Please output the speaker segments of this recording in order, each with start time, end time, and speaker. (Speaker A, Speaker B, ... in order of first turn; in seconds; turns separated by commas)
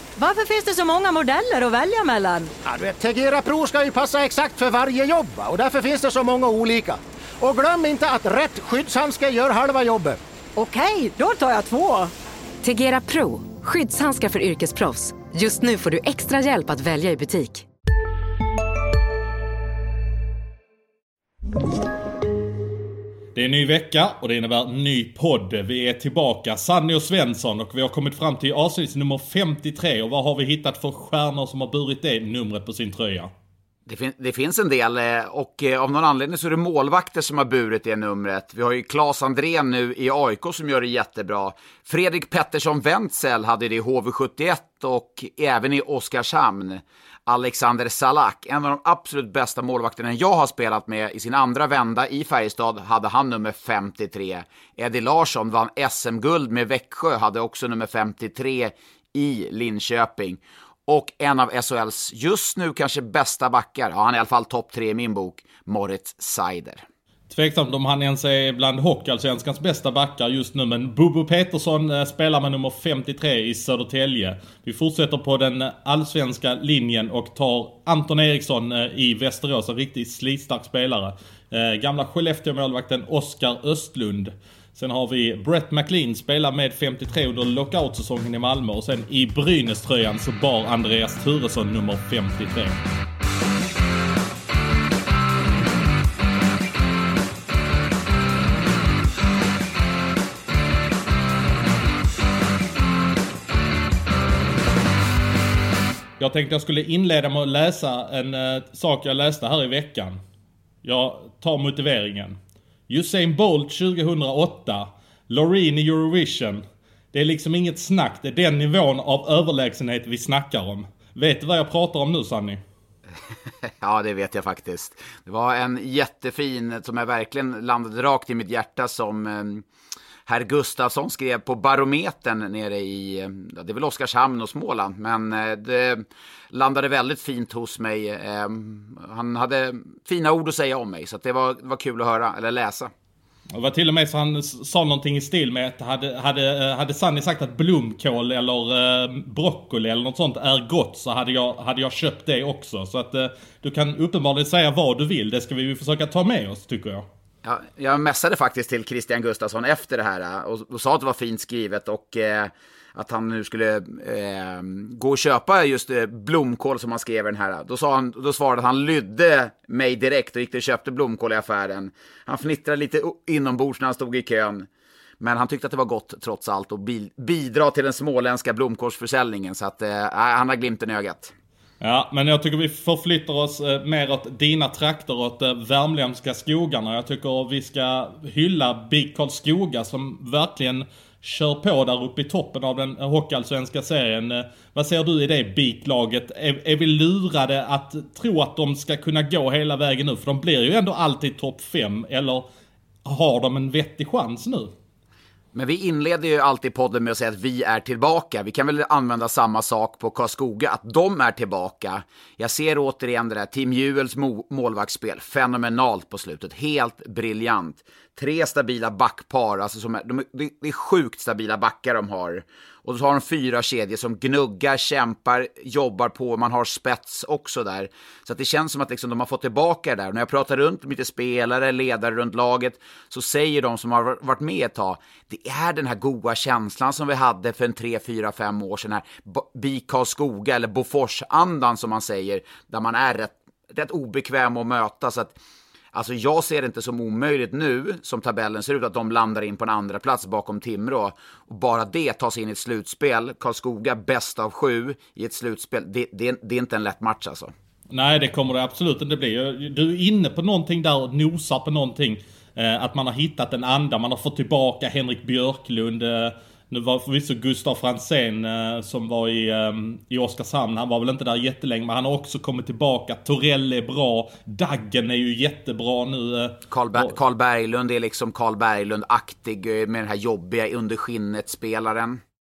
Speaker A: 0.2-2.5, Speaker B: 2.6-10.2, Speaker A: 10.6-12.1, Speaker C: 12.6-17.7, Speaker D: 23.3-33.3, Speaker E: 33.9-66.8, Speaker D: 67.3-92.8, Speaker D: 106.2-110.2, Speaker D: 110.8-112.4, Speaker D: 112.9-122.6, Speaker E: 123.8-129.7, Speaker E: 130.3-142.9, Speaker D: 143.5-157.1, Speaker E: 157.4-174.7, Speaker E: 175.2-181.3, Speaker D: 181.8-202.5, Speaker D: 203.1-204.7, Speaker E: 205.5-245.3, Speaker E: 245.9-257.5, Speaker D: 257.9-277.1, Speaker E: 276.7-282.2